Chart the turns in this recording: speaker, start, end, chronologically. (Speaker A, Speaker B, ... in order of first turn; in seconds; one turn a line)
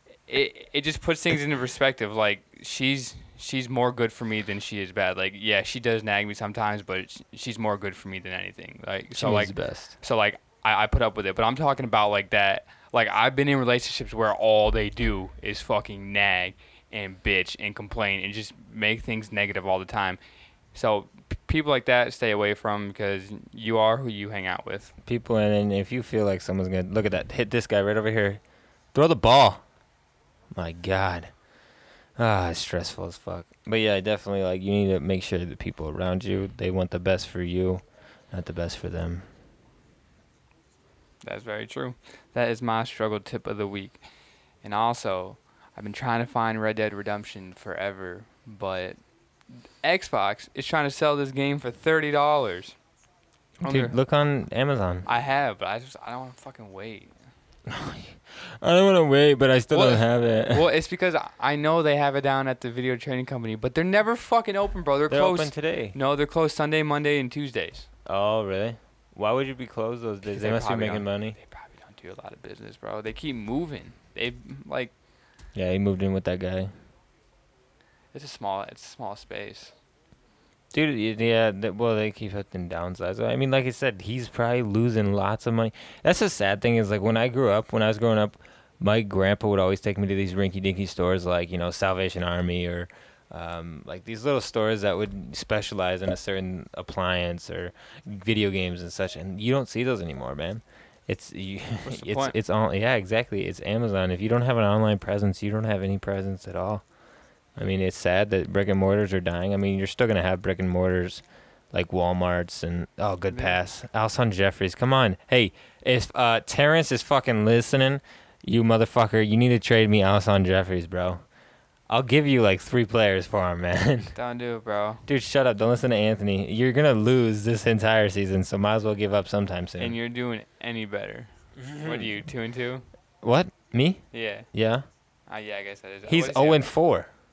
Speaker A: 0.3-20.2
Speaker B: 9.1-9.9
Speaker A: 20.7-24.9
Speaker B: 25.1-28.4
Speaker B: 28.9-29.6
Speaker B: 30.5-31.3
Speaker B: 32.2-39.3
Speaker A: 41.2-44.0
Speaker A: 44.6-49.0
Speaker A: 49.8-52.8
Speaker A: 53.6-54.0
Speaker B: 53.6-55.1
Speaker A: 55.1-57.1
Speaker B: 57.7-60.7
Speaker A: 59.7-67.9
Speaker B: 65.1-66.0
Speaker B: 68.1-71.4
Speaker A: 70.3-74.9
Speaker B: 75.5-76.7
Speaker A: 78.1-79.8
Speaker B: 80.7-106.8
Speaker A: 101.8-102.4
Speaker B: 107.6-121.2
Speaker A: 113.3-113.6
Speaker B: 121.9-124.1
Speaker A: 124.1-125.0
Speaker B: 125.1-130.0
Speaker A: 129.8-132.9
Speaker B: 131.6-132.2
Speaker B: 133.2-134.8
Speaker A: 134.1-134.5
Speaker A: 135.3-136.7
Speaker B: 136.1-137.1